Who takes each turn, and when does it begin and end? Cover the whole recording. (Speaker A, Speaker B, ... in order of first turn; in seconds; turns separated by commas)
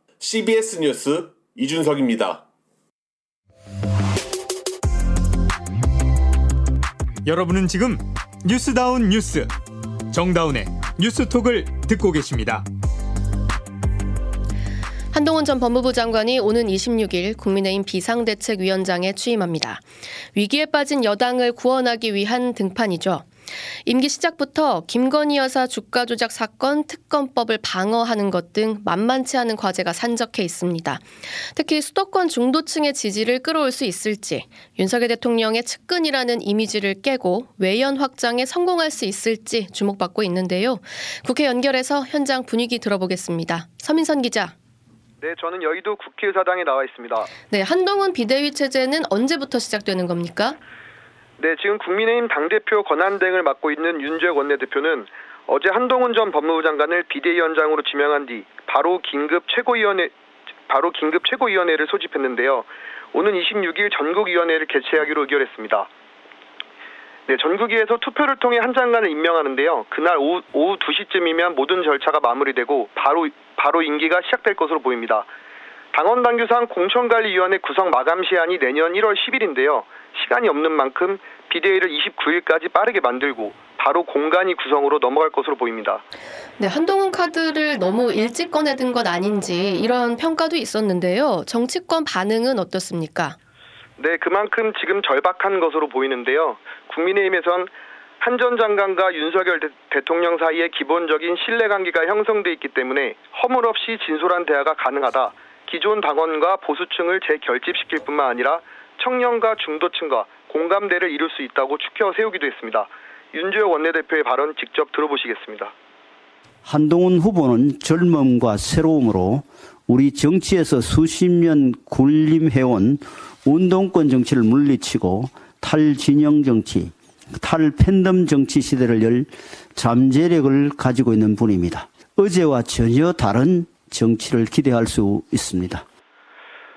Speaker A: 0.2-2.4, Speaker B: 7.2-9.5, Speaker B: 10.1-12.7, Speaker C: 15.1-23.3, Speaker C: 23.8-44.5, Speaker D: 45.2-47.3, Speaker C: 47.5-50.6, Speaker D: 51.4-60.1, Speaker D: 60.7-65.9, Speaker D: 67.3-75.3, Speaker D: 75.9-86.0, Speaker C: 86.6-93.4, Speaker D: 94.0-115.7, Speaker E: 116.6-135.8